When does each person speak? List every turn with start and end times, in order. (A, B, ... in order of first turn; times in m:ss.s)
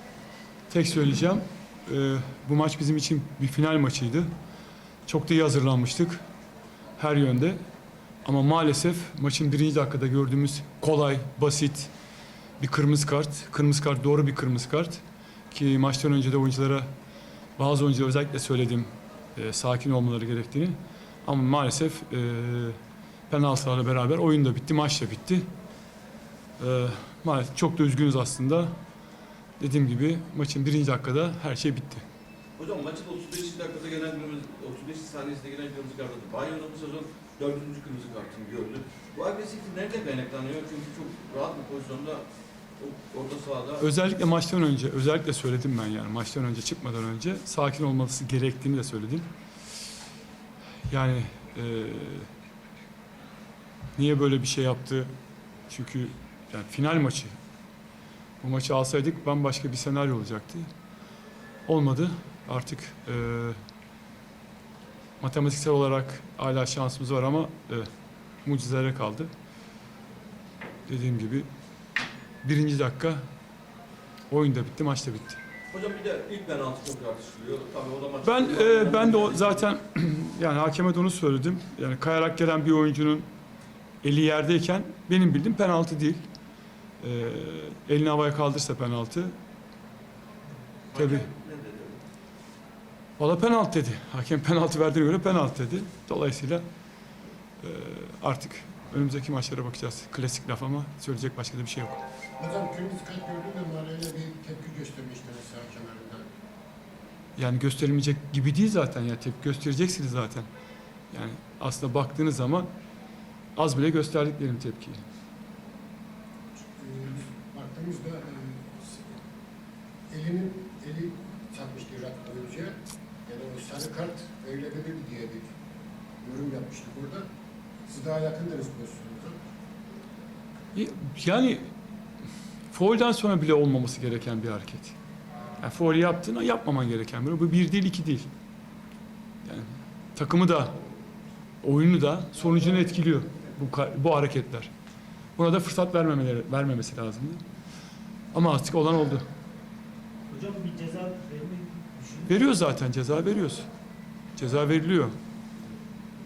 0:00.7-0:04.3 A
0:05.1-0:06.2 A
0:07.0-0:07.6 A
0:08.2-0:11.9 A
0:12.6-0:16.9 A
0:17.6-0:22.8 A
0:23.3-0:25.5 A
0:26.6-0:28.8 A
0:29.6-0:32.0 A
0:32.6-0:42.2 B
0:42.8-0:43.9 B
0:43.8-0:49.3 A
0:50.9-0:52.3 A
0:54.0-0:55.1 A
0:55.7-0:57.3 A
0:58.4-1:00.7 A
1:01.7-1:03.6 A
1:05.2-1:07.9 A
1:08.4-1:09.3 A
1:10.9-1:11.5 A
1:12.4-1:13.2 A
1:14.3-1:15.4 A
1:15.7-1:19.7 B
1:18.2-1:23.3 A
1:24.0-1:26.2 A
1:27.0-1:29.3 A
1:30.9-1:32.0 B
1:30.9-1:31.3 A
1:33.2-1:36.6 A
1:37.6-1:42.0 A
1:42.4-1:46.2 C
1:47.4-1:50.5 A
1:51.1-1:52.7 A
1:53.6-1:55.0 A
1:56.8-1:59.0 C
2:00.1-2:02.7 C
2:03.2-2:05.5 C
2:06.2-2:07.2 C
2:07.9-2:09.4 C
2:10.7-2:11.7 A
2:12.7-2:14.9 A
2:15.6-2:18.3 A
2:19.4-2:20.8 A
2:21.6-2:24.7 A
2:25.4-2:27.4 A
2:28.3-2:29.3 A
2:30.3-2:32.3 D
2:32.3-2:33.7 A
2:34.4-2:35.2 A